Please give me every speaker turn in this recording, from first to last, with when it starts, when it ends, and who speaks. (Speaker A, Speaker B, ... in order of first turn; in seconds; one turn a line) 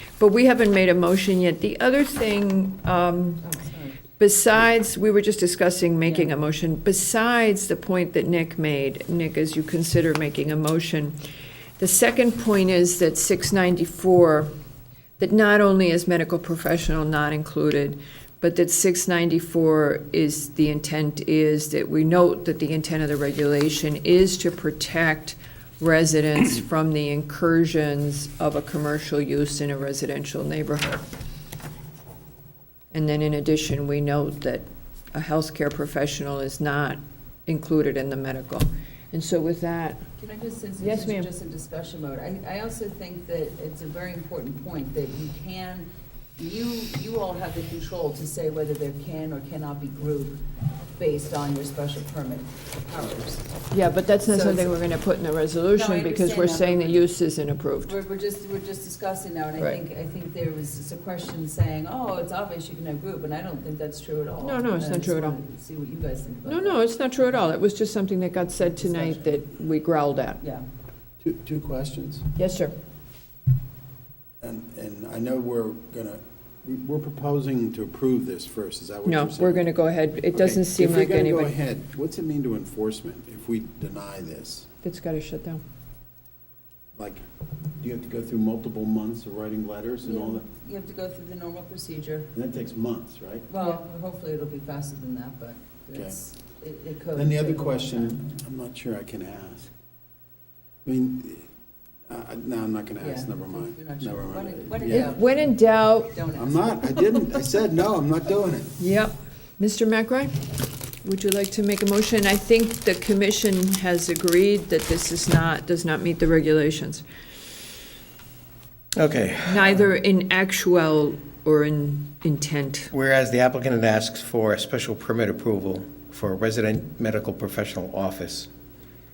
Speaker A: 0.2-3.5
Speaker B: 3.4-4.0
Speaker A: 4.2-11.2
Speaker B: 6.1-6.3
Speaker A: 11.8-14.5
Speaker A: 15.2-31.1
Speaker A: 32.9-40.0
Speaker B: 40.2-50.4
Speaker A: 40.8-41.3
Speaker B: 51.0-53.5
Speaker A: 53.7-57.9
Speaker B: 54.2-54.8
Speaker B: 55.7-57.1
Speaker B: 57.9-66.8
Speaker A: 64.4-65.4
Speaker A: 66.5-70.4
Speaker B: 68.7-69.3
Speaker B: 70.4-70.7
Speaker C: 71.2-72.2
Speaker A: 72.4-72.7
Speaker C: 74.4-79.7
Speaker A: 79.0-81.5
Speaker C: 80.3-84.7
Speaker A: 84.8-85.6
Speaker C: 87.0-87.2
Speaker C: 87.8-90.5
Speaker B: 90.0-92.3
Speaker C: 92.3-93.5
Speaker B: 93.5-98.4
Speaker C: 97.2-99.7
Speaker C: 100.8-101.4
Speaker C: 102.1-105.2
Speaker B: 103.0-105.5
Speaker A: 104.9-106.2
Speaker B: 106.1-107.4
Speaker C: 106.3-108.7
Speaker A: 108.8-110.5
Speaker A: 111.0-117.0
Speaker D: 119.0-119.8
Speaker A: 119.5-122.9
Speaker D: 122.9-128.5